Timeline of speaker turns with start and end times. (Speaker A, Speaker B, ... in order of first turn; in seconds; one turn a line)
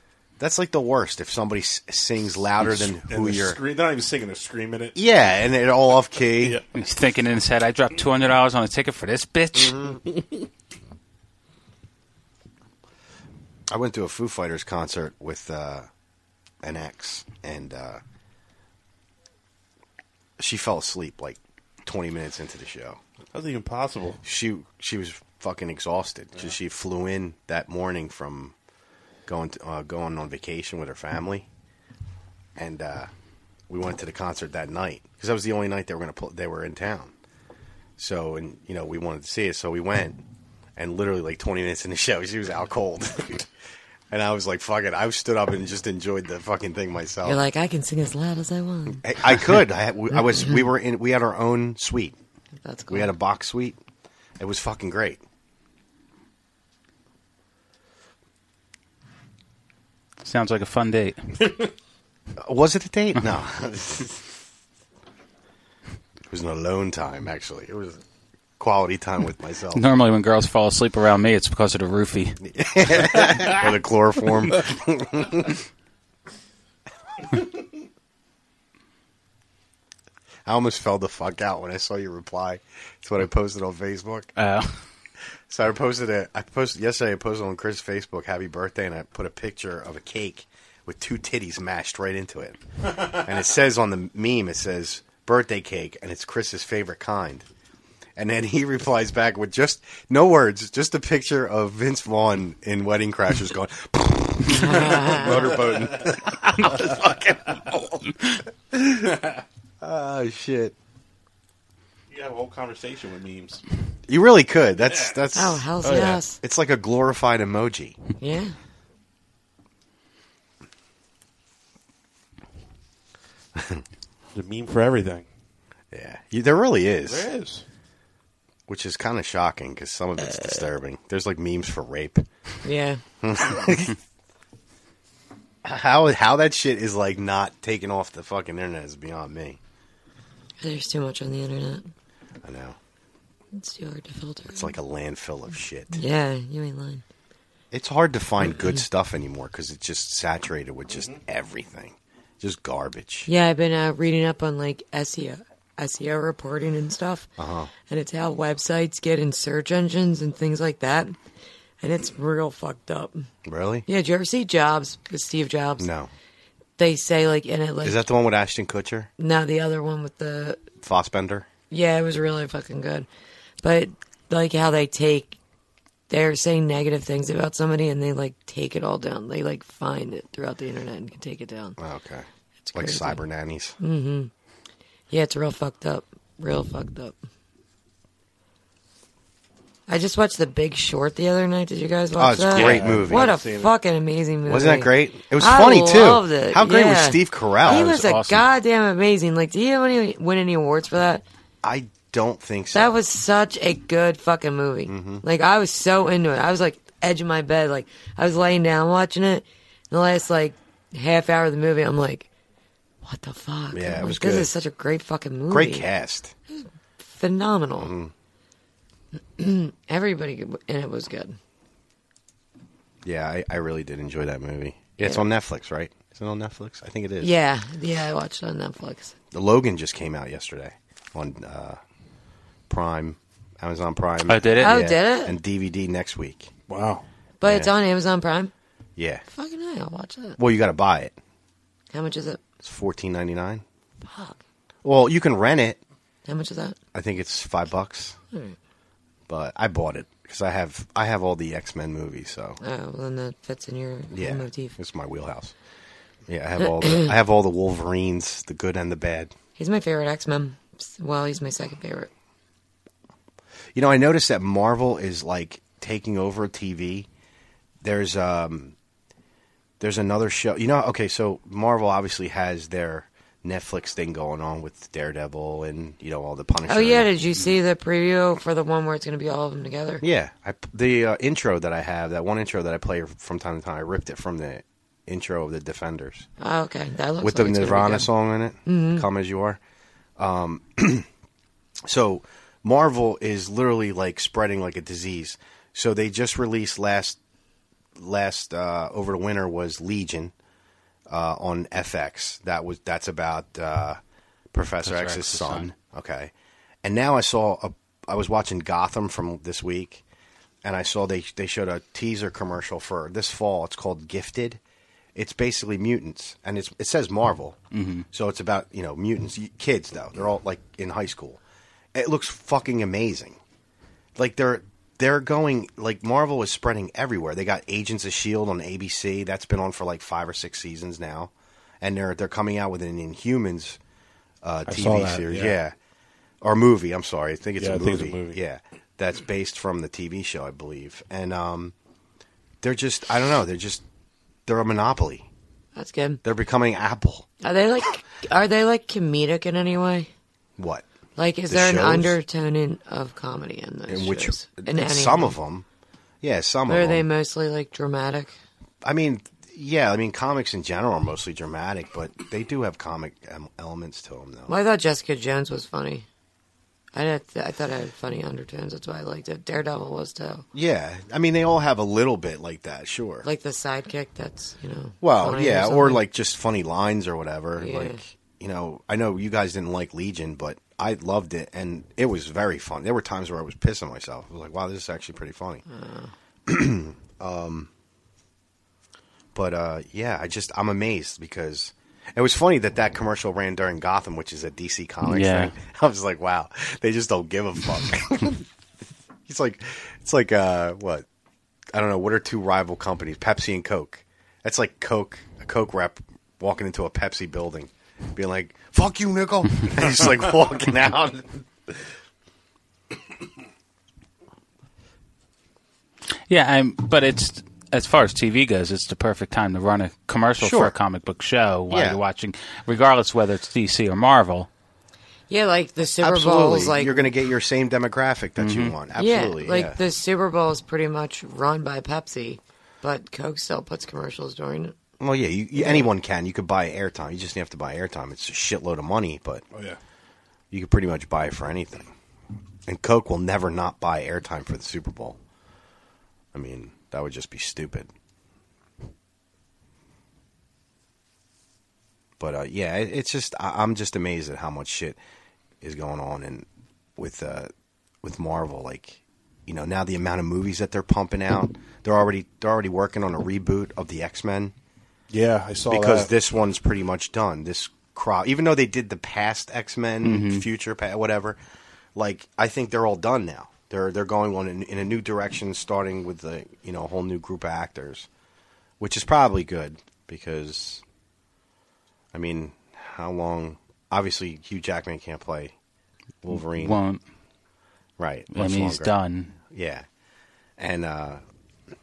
Speaker A: 0.4-3.6
Speaker B: 2.6-5.0
Speaker A: 4.9-6.6
Speaker C: 6.7-9.8
Speaker A: 9.6-10.0
Speaker A: 13.7-15.9
Speaker A: 16.6-18.0
Speaker A: 20.4-23.0
Speaker B: 23.3-24.2
Speaker A: 24.2-28.5
Speaker A: 29.3-31.5
Speaker A: 32.6-33.1
Speaker A: 33.7-37.1
Speaker A: 38.0-40.2
Speaker A: 40.8-43.5
Speaker A: 44.1-47.4
Speaker D: 47.2-49.0
Speaker A: 49.0-52.1
Speaker D: 52.6-53.1
Speaker A: 52.9-53.8
Speaker A: 54.4-55.2
Speaker C: 60.2-61.2
Speaker A: 62.4-64.2
Speaker A: 66.3-68.0
Speaker A: 68.6-69.8
Speaker C: 69.7-72.4
Speaker A: 72.4-75.6
Speaker A: 80.5-84.3
Speaker C: 84.4-84.7
Speaker A: 85.5-97.5
Speaker A: 98.2-108.1
Speaker D: 104.5-105.3
Speaker B: 104.8-106.2
Speaker A: 108.7-109.2
Speaker A: 109.8-110.8
Speaker B: 112.1-113.6
Speaker A: 114.1-118.0
Speaker B: 114.8-115.2
Speaker D: 115.3-116.4
Speaker B: 115.8-116.2
Speaker D: 118.2-118.5
Speaker A: 123.5-123.8
Speaker B: 124.3-125.2
Speaker A: 125.9-127.3
Speaker B: 127.1-127.6
Speaker A: 128.7-132.2
Speaker D: 132.6-133.0
Speaker A: 133.2-134.0
Speaker A: 135.6-139.6
Speaker D: 140.6-141.9
Speaker A: 142.4-142.8
Speaker D: 143.5-144.7
Speaker A: 144.5-146.0
Speaker D: 145.9-147.0
Speaker A: 147.7-153.3
Speaker B: 150.9-151.2
Speaker D: 153.3-157.3
Speaker A: 157.4-157.7
Speaker D: 157.9-161.1
Speaker D: 161.8-163.3
Speaker A: 163.4-163.9
Speaker D: 163.9-165.9
Speaker A: 165.8-166.1
Speaker D: 166.8-168.0
Speaker A: 167.8-169.1
Speaker D: 169.2-170.6
Speaker A: 170.8-171.5
Speaker D: 171.7-173.1
Speaker D: 173.6-175.4
Speaker D: 176.1-181.8
Speaker A: 181.8-183.8
Speaker D: 182.6-183.2
Speaker D: 183.8-184.3
Speaker D: 185.1-187.2
Speaker D: 189.9-201.2
Speaker A: 192.2-193.3
Speaker B: 192.5-193.7
Speaker A: 194.5-198.1
Speaker C: 197.6-198.4
Speaker A: 201.6-203.0
Speaker D: 202.7-212.3
Speaker A: 204.9-205.2
Speaker D: 213.0-215.9
Speaker A: 213.7-214.5
Speaker A: 215.5-216.3
Speaker D: 216.6-217.9
Speaker A: 217.8-218.1
Speaker D: 219.4-221.4
Speaker A: 223.0-227.3
Speaker D: 227.2-229.1
Speaker A: 229.3-231.8
Speaker A: 232.7-236.5
Speaker C: 234.3-234.8
Speaker D: 234.6-235.4
Speaker B: 236.7-237.1
Speaker D: 237.4-238.5
Speaker A: 237.4-237.7
Speaker A: 238.9-239.2
Speaker D: 239.3-240.4
Speaker A: 240.4-241.2
Speaker D: 241.9-242.4
Speaker A: 242.6-243.6
Speaker D: 244.1-244.4
Speaker A: 244.8-245.8
Speaker D: 246.2-246.8
Speaker A: 246.9-248.2
Speaker A: 249.3-252.6
Speaker D: 252.6-254.7
Speaker A: 254.1-255.5
Speaker A: 256.3-259.3
Speaker D: 259.6-262.1
Speaker A: 263.7-267.1
Speaker A: 267.8-268.7
Speaker A: 269.8-277.1
Speaker D: 276.7-280.0
Speaker A: 280.0-286.3
Speaker D: 286.4-288.1
Speaker A: 287.2-289.6
Speaker D: 288.6-289.1
Speaker A: 290.2-291.1
Speaker A: 291.8-297.2
Speaker A: 297.9-300.3
Speaker A: 301.1-304.0
Speaker A: 304.5-306.3
Speaker C: 304.8-305.7
Speaker A: 306.8-310.0
Speaker A: 310.6-314.6
Speaker A: 315.1-317.6
Speaker C: 317.7-318.1
Speaker A: 318.1-321.4
Speaker A: 321.9-323.4
Speaker A: 324.1-333.8
Speaker A: 334.4-335.7
Speaker B: 334.7-335.6
Speaker A: 336.4-341.7
Speaker B: 337.6-338.4
Speaker A: 342.6-343.8
Speaker A: 344.4-345.3
Speaker D: 345.8-346.2
Speaker A: 346.2-347.3
Speaker D: 347.4-350.1
Speaker A: 350.6-350.9
Speaker D: 351.1-355.4
Speaker A: 351.5-352.2
Speaker A: 353.9-355.6
Speaker A: 356.2-357.1
Speaker D: 356.7-358.3
Speaker A: 358.8-364.5
Speaker D: 364.5-366.1
Speaker D: 366.9-370.4
Speaker A: 370.5-373.2
Speaker D: 373.2-376.0
Speaker A: 375.0-385.6
Speaker D: 377.6-378.0
Speaker D: 385.7-386.1
Speaker A: 386.5-387.7
Speaker A: 389.4-398.4
Speaker C: 395.1-395.5
Speaker A: 399.3-401.1
Speaker A: 401.7-411.7
Speaker C: 416.3-424.5
Speaker A: 420.4-420.8
Speaker A: 421.7-422.0
Speaker D: 425.3-427.1
Speaker A: 426.0-429.8
Speaker C: 428.4-428.7
Speaker D: 429.0-434.7
Speaker A: 435.0-439.4
Speaker D: 435.6-435.9
Speaker A: 440.5-441.9
Speaker A: 442.7-445.2
Speaker A: 446.3-447.9
Speaker A: 452.2-455.0
Speaker A: 455.6-456.4
Speaker A: 457.0-457.5
Speaker A: 458.0-464.5
Speaker B: 465.1-466.1
Speaker A: 465.7-471.4
Speaker C: 470.0-470.4
Speaker A: 471.9-478.1
Speaker A: 478.8-480.8
Speaker A: 482.1-485.6
Speaker A: 486.2-486.8
Speaker C: 486.5-487.0
Speaker A: 488.0-489.9
Speaker C: 488.3-489.3
Speaker A: 490.6-491.2